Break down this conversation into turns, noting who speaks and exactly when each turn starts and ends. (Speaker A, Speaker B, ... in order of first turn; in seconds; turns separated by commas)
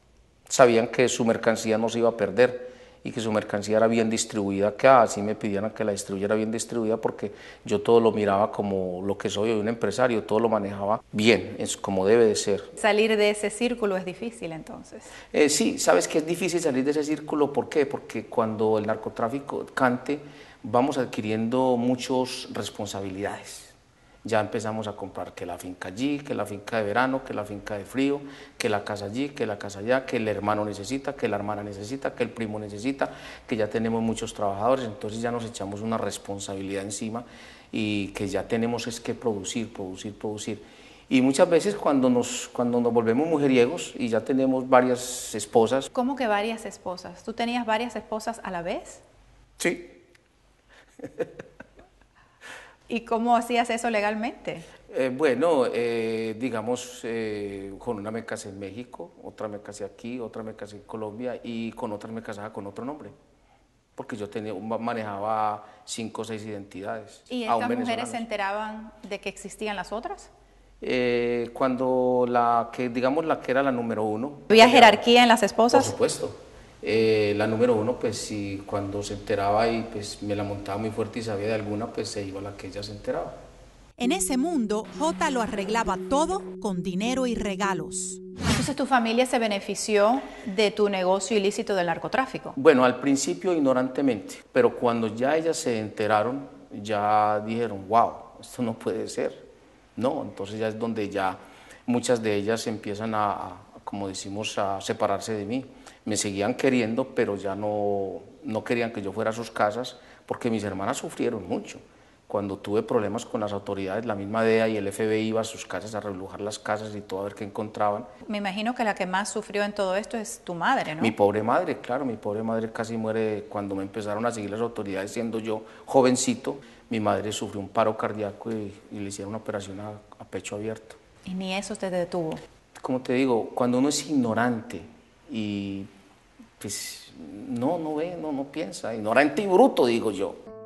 Speaker A: 0.5-12.7, Speaker B: 12.8-15.0, Speaker A: 15.3-45.9, Speaker B: 46.0-49.0, Speaker A: 49.6-50.0, Speaker B: 52.9-54.6, Speaker A: 54.9-63.1, Speaker A: 64.0-68.2, Speaker B: 67.3-70.3, Speaker A: 70.8-75.0, Speaker B: 74.6-75.8, Speaker A: 75.7-83.4, Speaker B: 84.0-92.5, Speaker A: 92.6-118.1, Speaker B: 118.3-121.1, Speaker A: 121.0-131.0, Speaker B: 131.3-132.4, Speaker A: 132.8-135.9, Speaker A: 136.6-140.4